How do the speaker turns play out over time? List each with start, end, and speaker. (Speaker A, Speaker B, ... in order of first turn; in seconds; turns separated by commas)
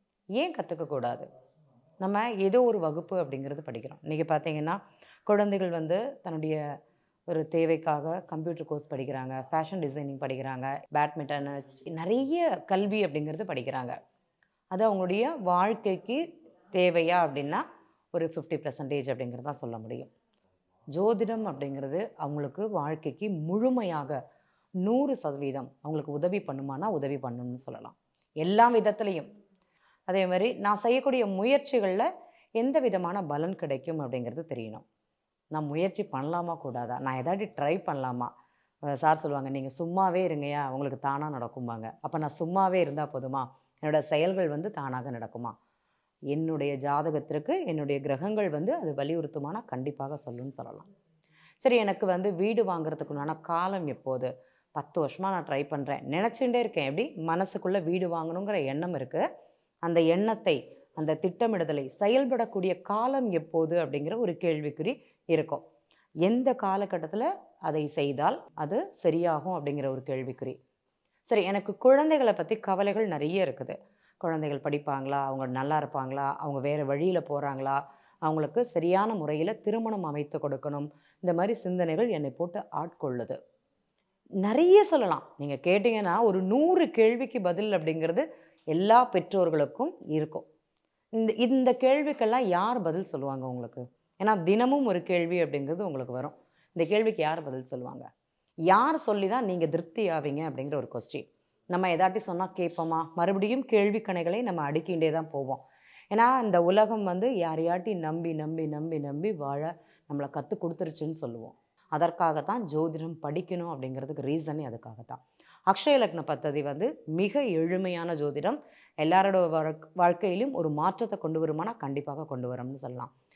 Speaker A: 0.4-1.3, Speaker A: 2.0-6.6, Speaker A: 7.3-14.0, Speaker A: 14.7-16.2, Speaker A: 16.7-20.1, Speaker A: 20.9-24.2, Speaker A: 24.8-29.3, Speaker A: 30.1-32.1, Speaker A: 32.6-34.8, Speaker A: 35.5-38.3, Speaker A: 38.9-45.5, Speaker A: 46.3-50.9, Speaker A: 51.6-59.2, Speaker A: 59.9-65.6, Speaker A: 66.2-70.6, Speaker A: 71.3-83.4, Speaker A: 84.4-90.5, Speaker A: 91.2-98.1, Speaker A: 98.7-105.6, Speaker A: 106.1-123.1